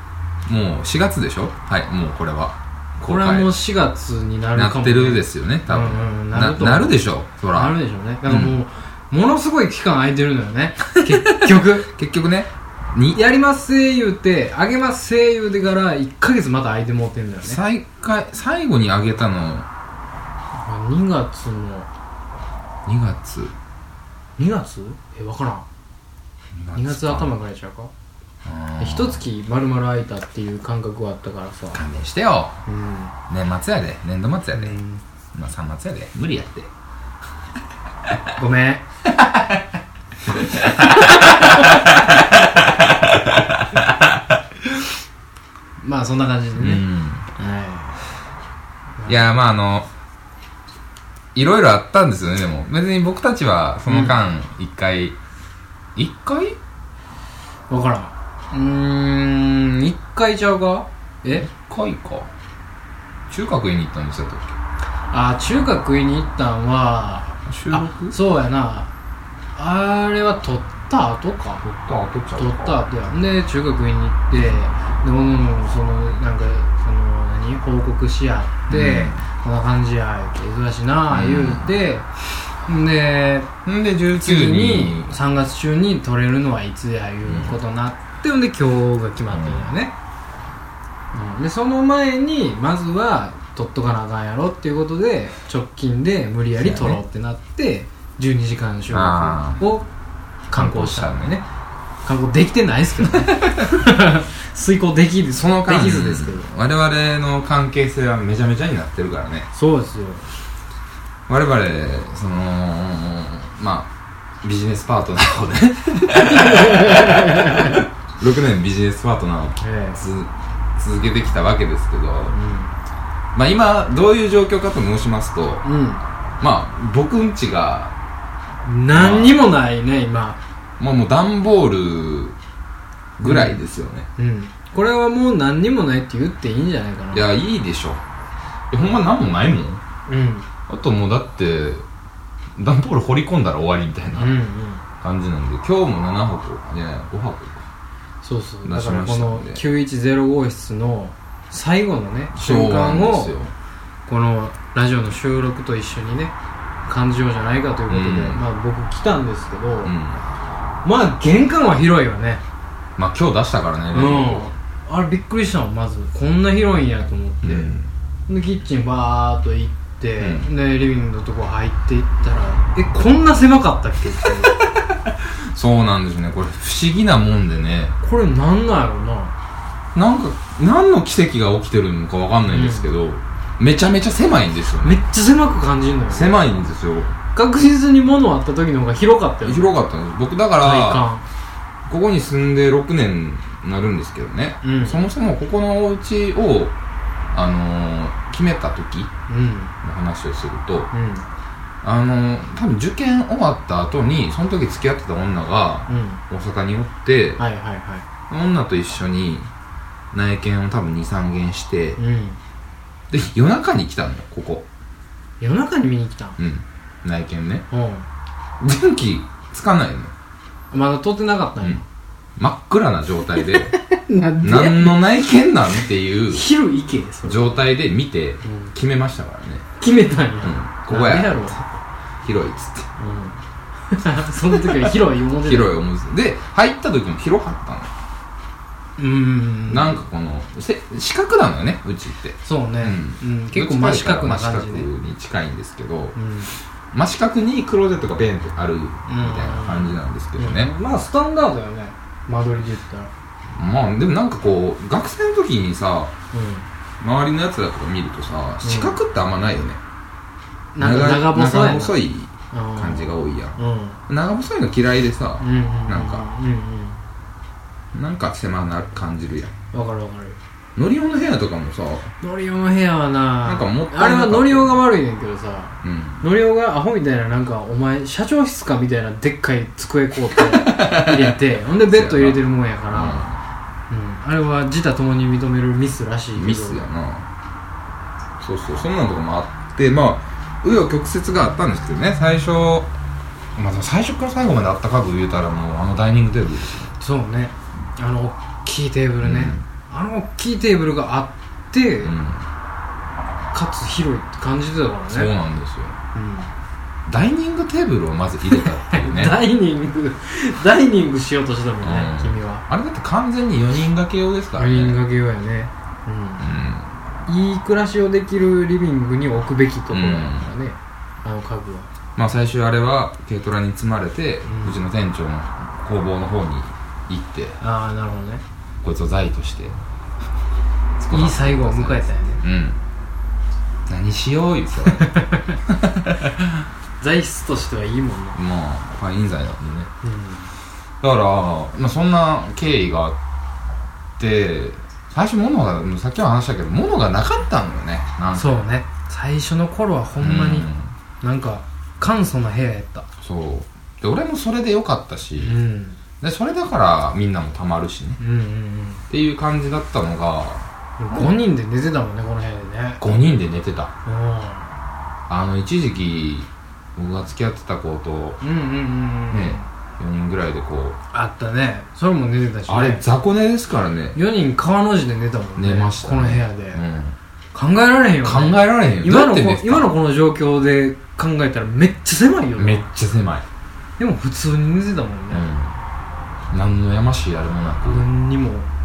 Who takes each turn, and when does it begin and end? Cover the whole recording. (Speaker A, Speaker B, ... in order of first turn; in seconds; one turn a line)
Speaker A: 0.5-3.5
Speaker B: 3.0-7.0
Speaker A: 4.5-8.6
Speaker B: 7.5-11.9
Speaker A: 11.1-13.2
Speaker B: 13.1-17.6
Speaker A: 17.4-19.7
Speaker B: 20.6-21.9
Speaker A: 22.9-23.5
Speaker B: 24.4-25.6
Speaker A: 26.5-27.3
Speaker B: 26.8-27.9
Speaker A: 28.4-29.2
Speaker B: 28.8-31.8
Speaker A: 31.7-32.6
Speaker B: 32.6-33.1
Speaker A: 33.3-34.8
Speaker B: 34.5-35.0
Speaker A: 35.3-36.7
Speaker B: 38.4-38.8
Speaker A: 39.1-39.6
Speaker A: 40.3-44.8
Speaker B: 41.0-41.6
Speaker B: 45.8-48.0
Speaker A: 46.6-47.3
Speaker A: 49.1-49.9
Speaker A: 51.3-55.2
Speaker B: 53.9-54.1
Speaker A: 55.9-56.6
Speaker B: 57.7-61.5
Speaker A: 61.4-62.3
Speaker A: 63.3-64.5
Speaker B: 65.1-68.9
Speaker A: 67.5-68.2
Speaker B: 69.5-71.7
Speaker A: 71.6-72.8
Speaker B: 72.4-82.1
Speaker A: 78.7-79.2
Speaker A: 81.1-81.7
Speaker B: 82.7-83.5
Speaker A: 83.6-85.1
Speaker B: 84.2-89.9
Speaker A: 87.2-87.6
Speaker A: 89.3-89.7
Speaker B: 91.1-99.9
Speaker A: 96.6-97.0
Speaker A: 98.9-99.6
Speaker B: 100.5-101.5
Speaker A: 100.5-101.4
Speaker B: 102.0-106.5
Speaker A: 103.0-103.7
Speaker A: 105.3-109.5
Speaker B: 109.5-110.3
Speaker A: 111.3-113.9
Speaker A: 114.4-122.3
Speaker B: 116.2-117.8
Speaker B: 119.6-120.0
Speaker B: 122.3-122.8
Speaker A: 123.3-125.6
Speaker B: 125.6-126.0
Speaker A: 126.4-127.9
Speaker B: 128.6-130.4
Speaker A: 128.9-129.4
Speaker A: 130.8-132.4
Speaker A: 133.2-134.1
Speaker B: 133.2-133.6
Speaker B: 134.2-137.3
Speaker A: 137.1-138.0
Speaker A: 138.7-139.8
Speaker B: 140.1-140.5
Speaker A: 140.7-141.8
Speaker A: 142.6-144.4
Speaker B: 144.2-144.8
Speaker A: 145.0-147.7
Speaker B: 148.2-153.3
Speaker A: 148.6-149.6
Speaker A: 152.3-153.5
Speaker B: 154.1-156.3
Speaker B: 156.9-159.9
Speaker A: 157.9-158.4
Speaker A: 159.8-160.2
Speaker B: 160.8-162.4
Speaker A: 163.0-164.5
Speaker B: 163.9-167.7
Speaker A: 167.4-167.9
Speaker B: 168.3-174.6
Speaker A: 170.2-170.5
Speaker A: 175.0-177.9
Speaker B: 178.0-179.3
Speaker A: 179.9-185.0
Speaker B: 182.5-182.9
Speaker B: 184.8-186.5
Speaker A: 186.1-187.2
Speaker B: 187.3-189.8
Speaker A: 189.4-191.1
Speaker B: 190.6-191.2
Speaker A: 191.9-196.7
Speaker B: 194.6-195.0
Speaker A: 197.3-199.1
Speaker B: 199.3-199.8
Speaker A: 199.8-200.9
Speaker B: 200.9-201.2
Speaker A: 201.8-207.4
Speaker B: 205.9-206.2
Speaker B: 207.4-208.0
Speaker A: 208.3-209.5
Speaker A: 210.1-212.0
Speaker B: 212.0-212.4
Speaker A: 213.1-214.7
Speaker B: 215.4-216.4
Speaker A: 216.4-217.6
Speaker B: 217.7-218.1
Speaker A: 218.6-220.1
Speaker B: 220.7-221.8
Speaker A: 221.6-221.8
Speaker A: 222.4-223.7
Speaker B: 223.4-225.0
Speaker A: 224.4-226.4
Speaker B: 226.3-227.7
Speaker A: 227.2-229.6
Speaker B: 228.4-228.7
Speaker B: 229.8-231.7
Speaker A: 230.4-231.5
Speaker A: 232.2-232.9
Speaker B: 233.0-233.4
Speaker B: 233.9-235.7
Speaker A: 234.5-237.9
Speaker B: 239.0-240.0
Speaker A: 239.7-246.2
Speaker B: 242.4-244.9
Speaker B: 246.1-246.5
Speaker A: 246.9-250.7
Speaker B: 249.1-253.1
Speaker A: 253.5-256.1
Speaker B: 256.3-256.7
Speaker A: 257.0-259.8
Speaker B: 258.6-259.0
Speaker B: 260.7-262.0
Speaker A: 260.8-263.6
Speaker B: 262.5-264.0
Speaker A: 264.1-266.3
Speaker B: 265.4-267.0
Speaker A: 267.9-269.5
Speaker B: 269.7-270.4
Speaker A: 270.8-272.1
Speaker B: 272.2-283.3
Speaker A: 273.4-274.9
Speaker A: 275.8-276.2
Speaker A: 280.3-283.4
Speaker B: 283.9-286.9
Speaker A: 286.4-287.3
Speaker A: 288.4-292.9
Speaker A: 293.6-296.9
Speaker B: 297.0-302.1
Speaker A: 299.2-299.6
Speaker A: 302.0-302.5
Speaker B: 303.5-305.3
Speaker A: 305.1-305.9
Speaker B: 306.1-306.5
Speaker A: 307.1-309.4
Speaker B: 308.5-312.6
Speaker A: 311.8-315.0
Speaker B: 314.6-316.5
Speaker A: 316.4-316.9
Speaker B: 317.3-321.9
Speaker A: 319.9-320.5
Speaker A: 322.1-327.6
Speaker B: 324.4-324.8
Speaker B: 327.6-328.4
Speaker A: 328.8-329.8
Speaker A: 331.0-332.8
Speaker B: 331.1-332.4
Speaker A: 333.9-336.7
Speaker B: 335.0-335.6
Speaker B: 337.0-338.4
Speaker A: 338.3-339.9
Speaker B: 340.0-340.5
Speaker A: 341.0-343.2
Speaker A: 344.2-348.6
Speaker B: 348.3-350.7
Speaker A: 350.2-350.9
Speaker B: 351.2-353.1
Speaker A: 353.2-355.6
Speaker B: 355.4-356.0
Speaker A: 356.2-358.2
Speaker B: 358.2-359.0
Speaker A: 359.1-361.3
Speaker B: 361.0-363.1
Speaker A: 363.0-363.9
Speaker B: 364.0-364.7
Speaker A: 365.3-368.4
Speaker B: 368.4-369.7
Speaker A: 369.3-371.0
Speaker B: 371.1-373.0
Speaker A: 372.7-374.2
Speaker B: 374.1-376.8
Speaker A: 375.6-377.1
Speaker B: 377.5-382.9
Speaker A: 378.2-379.9
Speaker A: 382.6-383.4
Speaker B: 384.0-385.5
Speaker A: 385.3-385.8
Speaker A: 386.5-388.0
Speaker B: 387.9-388.7